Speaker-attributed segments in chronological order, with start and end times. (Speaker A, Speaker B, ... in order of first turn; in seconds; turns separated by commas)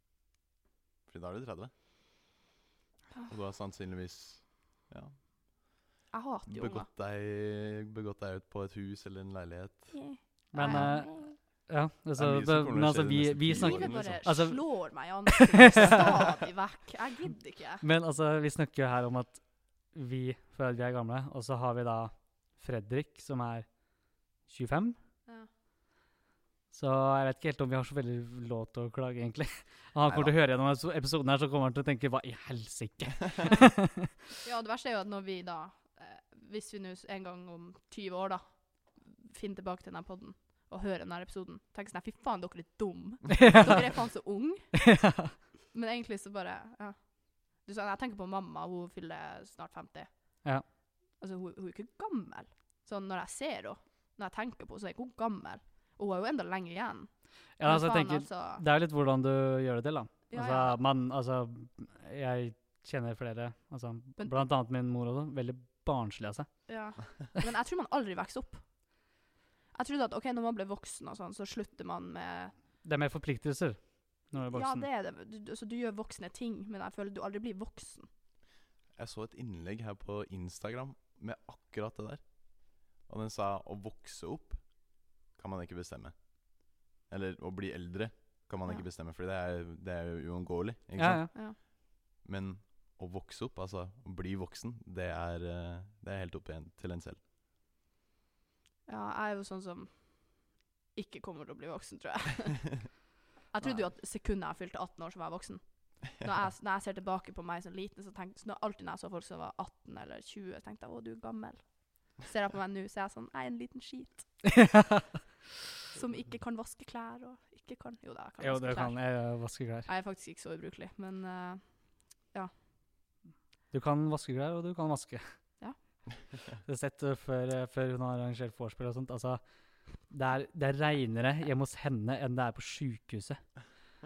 Speaker A: 1.1-1.7, Speaker A: 3.3-5.2, Speaker B: 6.1-6.9, Speaker A: 6.5-10.0, Speaker B: 9.9-11.4, Speaker C: 10.5-16.0, Speaker A: 10.6-11.0, Speaker A: 12.2-14.3, Speaker B: 13.5-17.8, Speaker C: 17.8-23.9, Speaker C: 24.4-25.0, Speaker C: 26.7-34.1, Speaker A: 30.1-30.3, Speaker B: 34.4-45.0, Speaker C: 43.3-44.0, Speaker C: 44.8-45.3, Speaker B: 45.7-50.5, Speaker B: 51.2-58.6, Speaker C: 57.6-66.7, Speaker B: 60.3-60.8, Speaker B: 66.7-68.7, Speaker B: 69.7-72.5, Speaker C: 72.8-74.9, Speaker B: 74.5-78.1, Speaker A: 79.0-91.7, Speaker C: 91.0-91.3, Speaker A: 92.2-97.2, Speaker B: 98.9-114.4, Speaker C: 114.5-115.1, Speaker B: 115.9-122.5, Speaker C: 118.4-119.9, Speaker C: 123.7-125.3, Speaker C: 126.7-133.6